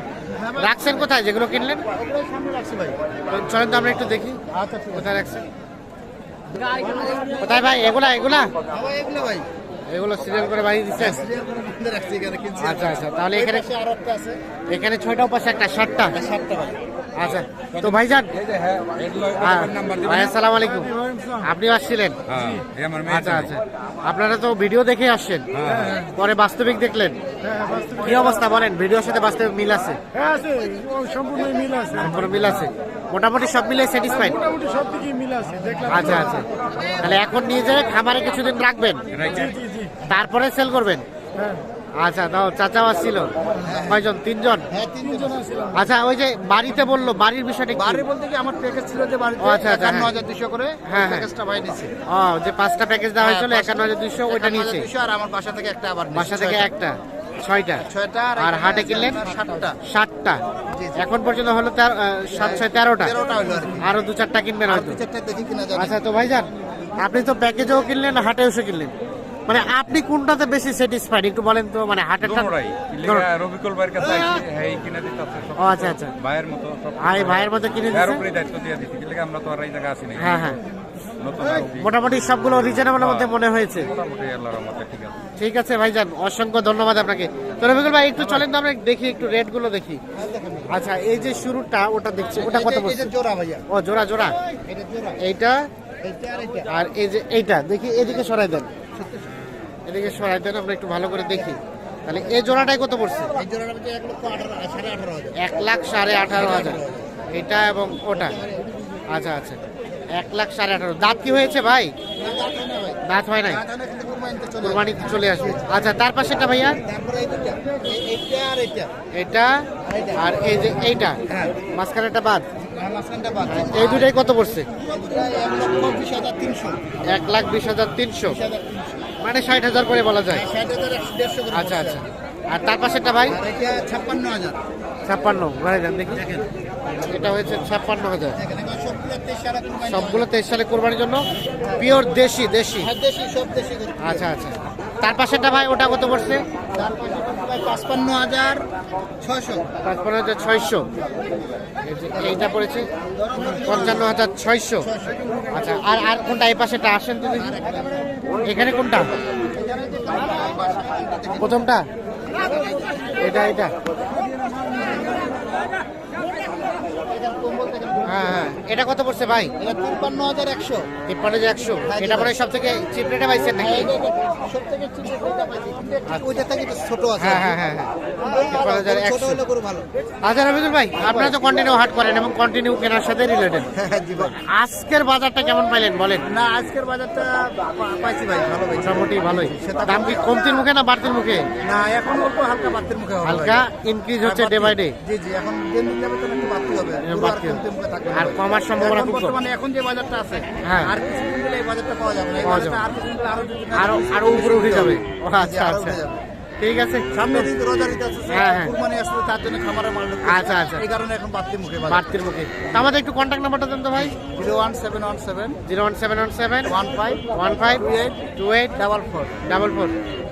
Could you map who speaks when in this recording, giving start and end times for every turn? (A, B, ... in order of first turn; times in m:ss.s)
0:00.3-0:00.8 A
0:00.6-0:01.8 B
0:01.9-0:03.0 A
0:03.3-0:04.4 B
0:04.5-0:05.0 A
0:04.9-0:05.4 B
0:07.4-0:08.5 B
0:08.7-0:09.5 A
0:09.9-0:11.2 B
0:11.0-0:14.4 A
0:12.6-0:13.7 B
0:14.7-0:16.2 B
0:16.1-0:16.8 A
0:17.2-0:18.3 B
0:17.7-0:20.3 C
0:19.4-0:22.2 B
0:22.3-0:23.5 C
0:23.0-0:27.2 B
0:25.5-0:26.0 C
0:27.7-0:28.0 D
0:27.9-0:30.0 B
0:30.2-0:32.0 D
0:31.9-0:34.5 B
0:34.6-0:35.8 D
0:35.6-0:37.2 A
0:35.9-0:36.4 B
0:37.0-0:39.0 B
0:39.1-0:39.6 C
0:40.0-0:41.0 B
0:42.0-0:44.7 B
0:43.6-0:44.0 A
0:44.7-0:45.6 A
0:45.7-0:48.0 B
0:47.7-0:51.9 A
0:49.4-0:50.1 B
0:50.8-0:51.3 B
0:52.1-0:54.9 B
0:53.2-0:56.7 A
0:56.1-0:57.8 B
0:57.9-0:59.8 A
0:58.4-0:59.2 B
0:59.8-1:00.4 B
1:00.7-1:01.0 A
1:01.0-1:03.1 B
1:02.4-1:03.9 A
1:03.8-1:05.0 B
1:04.7-1:06.0 A
1:05.7-1:08.9 B
1:09.5-1:12.5 B
1:12.2-1:20.6 C
1:15.6-1:16.1 B
1:17.0-1:18.2 B
1:20.2-1:20.6 B
1:21.2-1:22.0 C
1:21.6-1:23.9 B
1:22.7-1:25.2 C
1:25.4-1:30.0 B
1:28.2-1:28.4 A
1:30.1-1:30.8 A
1:30.7-1:33.1 B
1:32.4-1:33.6 A
1:33.7-1:34.4 B
1:34.6-1:35.2 A
1:35.2-1:35.6 B
1:36.0-1:36.7 A
1:36.7-1:38.7 B
1:38.9-1:39.3 A
1:39.9-1:43.4 B
1:43.3-1:45.4 A
1:45.4-1:48.4 B
1:46.2-1:47.1 A
1:48.2-1:48.7 A
1:49.1-1:49.6 B
1:50.1-1:51.9 B
1:52.2-1:55.8 A
1:53.0-1:53.6 B
1:54.6-1:56.8 B
1:56.8-1:58.9 A
1:59.1-2:01.2 B
1:59.8-2:00.6 A
2:01.2-2:01.6 A
2:01.7-2:02.5 B
2:02.6-2:04.1 A
2:03.5-2:04.7 B
2:04.7-2:06.8 A
2:07.1-2:08.4 B
2:08.3-2:09.1 A
2:09.2-2:10.4 B
2:10.3-2:12.0 A
2:11.5-2:13.4 B
2:13.3-2:14.6 A
2:15.0-2:16.2 B
2:16.1-2:16.5 A
2:17.0-2:18.4 B
2:18.3-2:20.3 A
2:19.9-2:21.2 B
2:21.8-2:22.9 B
2:22.8-2:24.3 A
2:24.0-2:26.4 B
2:26.7-2:28.6 A
2:29.2-2:29.7 A
2:29.8-2:30.9 B
2:31.8-2:32.9 B
2:33.2-2:34.1 A
2:33.5-2:34.9 B
2:34.8-2:35.2 A
2:35.5-2:37.6 B
2:37.3-2:38.1 A
2:38.4-2:39.1 B
2:39.5-2:41.6 A
2:41.4-2:41.9 B
2:42.3-2:43.2 A
2:43.2-2:43.8 B
2:44.7-2:45.1 A
2:47.1-2:48.5 A
2:48.1-2:49.5 B
2:49.6-2:50.9 A
2:51.1-2:53.9 B
2:51.8-2:52.3 A
2:53.6-2:57.6 A
2:56.1-2:56.3 B
2:57.2-2:59.4 B
2:58.2-2:59.9 A
3:00.2-3:03.7 B
3:01.0-3:01.3 A
3:03.7-3:04.4 A
3:04.4-3:06.2 B
3:06.3-3:10.4 A
3:08.8-3:11.5 B
3:11.6-3:13.6 A
3:13.2-3:14.9 B
3:14.2-3:26.2 A
3:17.0-3:17.6 B
3:18.1-3:19.4 B
3:20.6-3:20.9 B
3:22.4-3:22.8 B
3:23.7-3:26.0 B
3:26.6-3:27.1 B
3:27.1-3:32.0 A
3:28.3-3:28.7 B
3:30.2-3:30.8 B
3:31.9-3:34.2 B
3:34.1-3:35.6 A
3:35.6-3:36.8 B
3:36.6-3:38.2 A
3:37.3-3:38.8 B
3:38.7-3:39.4 A
3:39.5-3:39.9 B